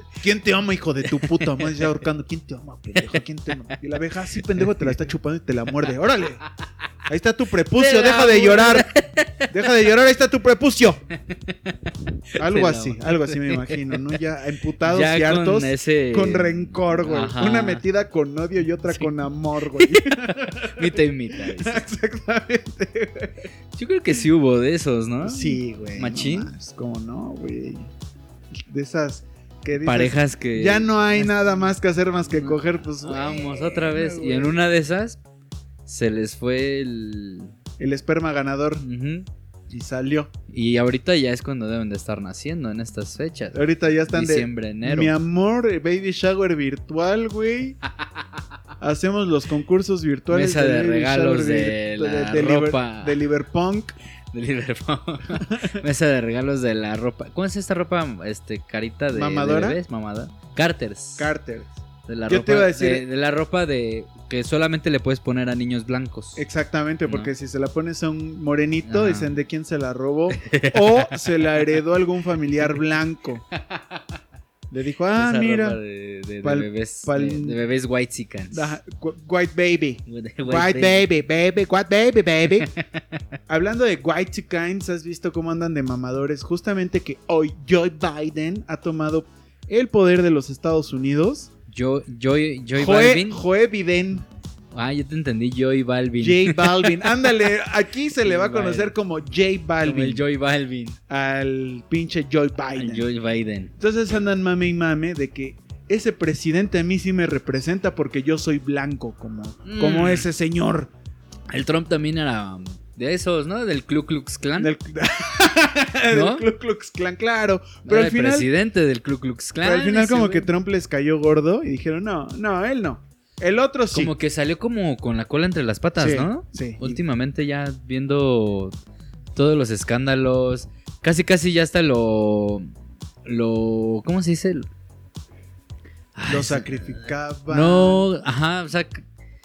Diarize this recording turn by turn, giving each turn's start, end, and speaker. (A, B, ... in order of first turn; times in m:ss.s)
0:00.2-0:06.4 A
0:01.1-0:01.8 B
0:04.6-0:04.9 B
0:07.1-0:08.9 A
0:07.7-0:09.5 B
0:09.5-0:11.0 A
0:11.5-0:11.7 B
0:12.3-0:14.1 B
0:12.4-0:23.4 A
0:14.8-0:17.8 B
0:19.7-0:21.8 B
0:23.7-0:26.5 B
0:25.2-0:27.9 A
0:28.7-0:34.6 A
0:29.8-0:31.7 B
0:32.3-0:35.2 B
0:35.8-0:37.5 B
0:37.8-0:38.8 A
0:38.8-0:39.3 B
0:39.7-0:40.3 A
0:40.5-0:45.1 B
0:43.5-0:47.8 A
0:48.8-0:53.9 A
0:50.3-0:53.2 B
0:54.3-1:01.3 B
0:55.3-0:55.8 A
0:59.1-0:59.8 A
1:01.2-1:01.7 A
1:02.1-1:06.4 B
1:02.3-1:03.0 A
1:06.4-1:13.4 A
1:07.0-1:07.3 B
1:08.8-1:09.3 B
1:10.3-1:11.3 B
1:13.6-1:14.0 B
1:14.7-1:15.8 A
1:15.1-1:18.8 B
1:16.4-1:17.6 A
1:18.5-1:22.7 A
1:20.1-1:21.1 B
1:22.6-1:23.2 B
1:23.5-1:31.5 A
1:31.7-1:33.4 B
1:32.7-1:34.2 A
1:34.7-1:37.1 B
1:36.2-1:40.2 A
1:38.2-1:38.9 B
1:39.8-1:41.0 B
1:41.1-1:43.0 A
1:42.7-1:43.7 B
1:43.8-1:50.9 A
1:49.6-1:50.3 B
1:51.5-1:54.7 B
1:54.6-1:58.5 A
1:56.1-1:56.4 B
1:57.8-2:00.5 B
1:59.6-2:04.1 A
2:03.9-2:08.7 B
2:06.0-2:07.0 A
2:09.3-2:12.7 B
2:13.2-2:14.7 B
2:16.2-2:19.0 B
2:16.3-2:18.0 A